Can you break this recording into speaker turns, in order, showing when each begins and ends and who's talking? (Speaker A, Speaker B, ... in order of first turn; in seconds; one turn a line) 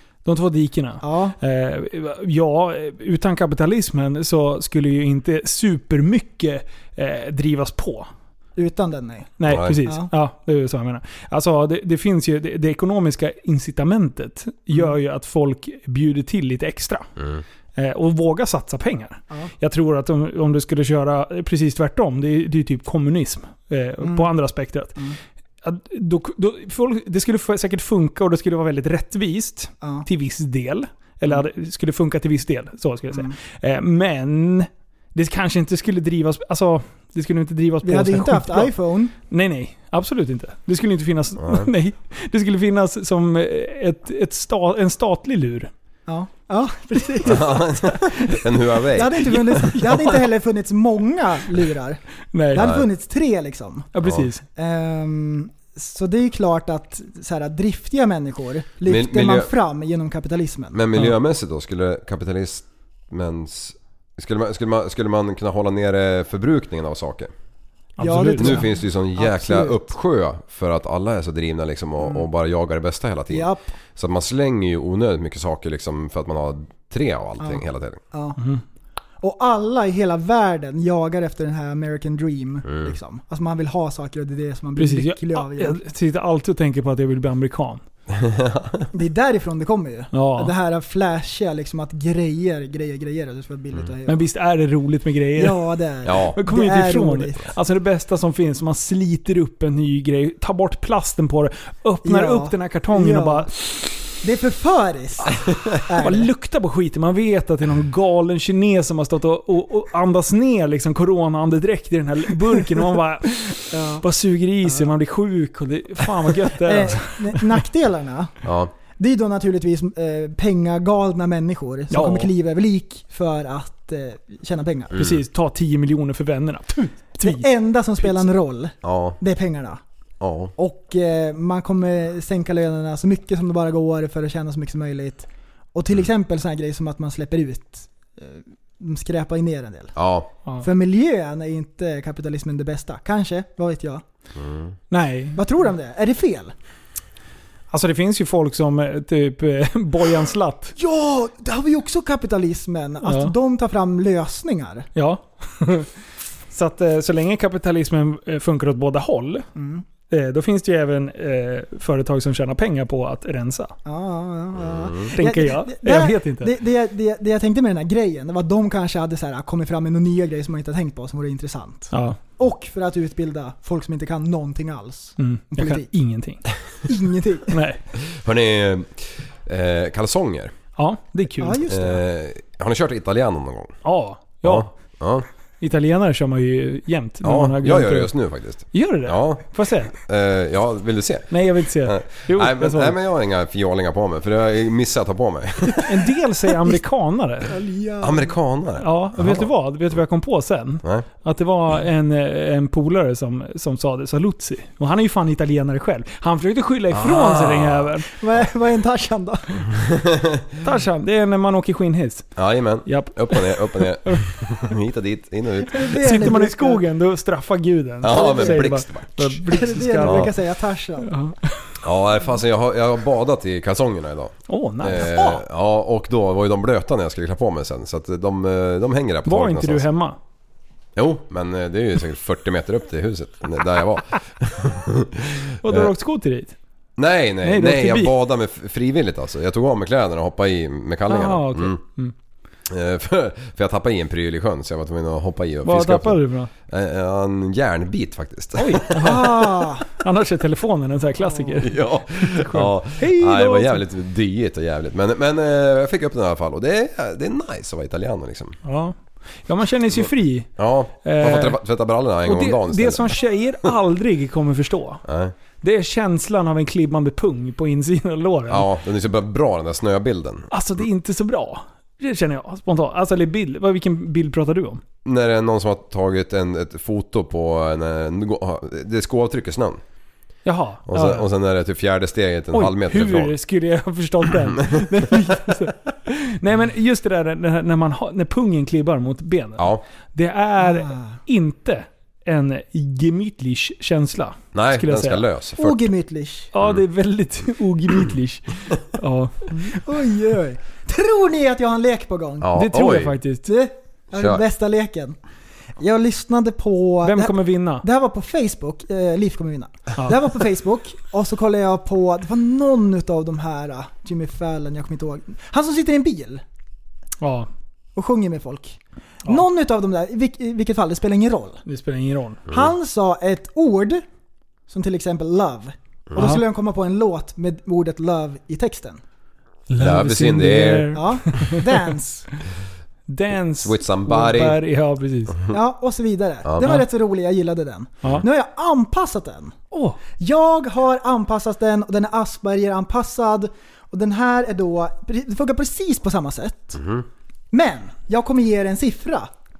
Speaker A: 0.2-8.1
Speaker B: 1.0-1.4
Speaker B: 8.6-10.1
Speaker A: 9.4-17.1
Speaker C: 9.5-9.7
Speaker C: 17.2-17.4
Speaker A: 17.8-25.0
Speaker B: 24.0-24.3
Speaker A: 25.6-45.7
Speaker B: 29.8-30.1
Speaker B: 37.8-39.1
Speaker C: 41.4-41.7
Speaker B: 46.1-52.0
Speaker C: 47.2-50.1
Speaker A: 52.3-52.7
Speaker B: 52.5-53.9
Speaker C: 52.5-52.9
Speaker A: 53.9-54.4
Speaker B: 54.5-60.8
Speaker C: 58.8-59.5
Speaker C: 60.7-67.3
Speaker A: 68.0-68.6
Speaker B: 68.0-69.8
Speaker C: 68.4-78.0
Speaker B: 72.0-72.2
Speaker B: 73.3-73.6
Speaker B: 77.4-78.4
Speaker A: 78.4-78.6
Speaker B: 79.2-85.8
Speaker C: 82.6-83.0
Speaker A: 84.8-87.8
Speaker C: 88.2-88.8
Speaker B: 88.9-94.2
Speaker A: 90.1-90.5
Speaker A: 94.0-95.6
Speaker B: 95.3-97.5
Speaker C: 96.0-96.4
Speaker A: 96.3-103.5
Speaker B: 102.0-103.6
Speaker B: 104.2-106.3
Speaker A: 106.0-117.4
Speaker B: 113.7-114.0
Speaker B: 116.4-125.0
Speaker C: 118.4-118.7
Speaker A: 121.9-122.3
Speaker C: 124.9-125.2
Speaker A: 124.9-127.4
Speaker B: 127.2-129.8
Speaker A: 128.0-128.3
Speaker C: 128.8-129.2
Speaker C: 130.2-130.5
Speaker B: 130.6-139.9
Speaker C: 139.9-140.3
Speaker B: 140.6-144.0
Speaker C: 144.3-144.8
Speaker A: 144.9-145.4
Speaker B: 145.3-146.5
Speaker A: 147.7-150.7
Speaker B: 150.8-154.9
Speaker A: 153.0-153.3
Speaker A: 154.9-155.9
Speaker A: 156.5-159.5
Speaker B: 159.5-159.8
Speaker A: 160.1-163.7
Speaker B: 163.8-175.9
Speaker C: 164.5-165.1
Speaker A: 165.1-166.5
Speaker A: 171.9-172.2
Speaker A: 175.2-176.5
Speaker B: 176.8-177.5
Speaker A: 177.5-177.8
Speaker C: 178.1-180.5
Speaker A: 180.8-181.6
Speaker B: 181.4-182.0
Speaker C: 181.7-183.8
Speaker A: 183.8-185.0
Speaker C: 184.4-185.2
Speaker A: 185.6-189.9
Speaker C: 187.2-195.9
Speaker A: 191.3-192.9
Speaker A: 195.8-197.5
Speaker B: 197.5-198.3
Speaker C: 198.0-199.5
Speaker A: 198.8-208.1
Speaker C: 206.9-208.4
Speaker B: 208.2-209.7
Speaker C: 209.7-210.4
Speaker A: 210.6-214.4
Speaker C: 212.4-216.1
Speaker B: 215.7-216.8
Speaker A: 216.0-220.3
Speaker C: 218.0-220.3
Speaker B: 218.0-218.8
Speaker B: 219.5-221.2
Speaker A: 221.0-221.5
Speaker C: 221.8-229.8
Speaker A: 224.5-225.1
Speaker B: 225.0-225.4
Speaker A: 229.2-230.2
Speaker C: 230.9-235.9
Speaker A: 235.6-236.6
Speaker C: 237.0-241.8
Speaker A: 237.4-238.1
Speaker A: 241.1-242.1
Speaker C: 242.7-249.2
Speaker A: 245.6-246.5
Speaker A: 248.6-253.8
Speaker B: 249.0-249.9
Speaker C: 251.6-258.6
Speaker A: 258.6-260.5
Speaker C: 259.9-263.2
Speaker A: 261.0-261.6
Speaker A: 262.2-265.0
Speaker C: 265.0-265.3
Speaker A: 265.6-268.7
Speaker C: 268.5-270.5
Speaker A: 270.5-274.8
Speaker C: 275.0-279.8
Speaker A: 280.4-281.2
Speaker C: 280.9-283.3
Speaker A: 282.5-295.2
Speaker C: 284.6-284.9
Speaker C: 289.6-289.8
Speaker B: 290.6-291.2
Speaker C: 294.5-295.9
Speaker B: 295.6-296.5
Speaker A: 296.5-299.5
Speaker B: 299.5-302.5
Speaker C: 302.4-303.2
Speaker A: 302.5-303.5
Speaker B: 303.4-305.2
Speaker C: 304.1-304.4
Speaker B: 305.8-316.4
Speaker A: 307.0-307.8
Speaker A: 317.2-317.5
Speaker B: 317.9-321.6
Speaker A: 321.6-322.4
Speaker C: 322.5-322.7
Speaker B: 322.5-324.0
Speaker B: 324.7-329.0
Speaker C: 326.1-326.4
Speaker A: 329.7-331.6
Speaker C: 329.8-331.0
Speaker B: 330.9-332.3
Speaker A: 333.1-335.4
Speaker C: 333.6-334.6
Speaker B: 335.5-339.6
Speaker C: 336.4-336.7
Speaker A: 339.7-340.0
Speaker B: 340.2-346.8
Speaker C: 346.7-347.1
Speaker B: 347.5-349.3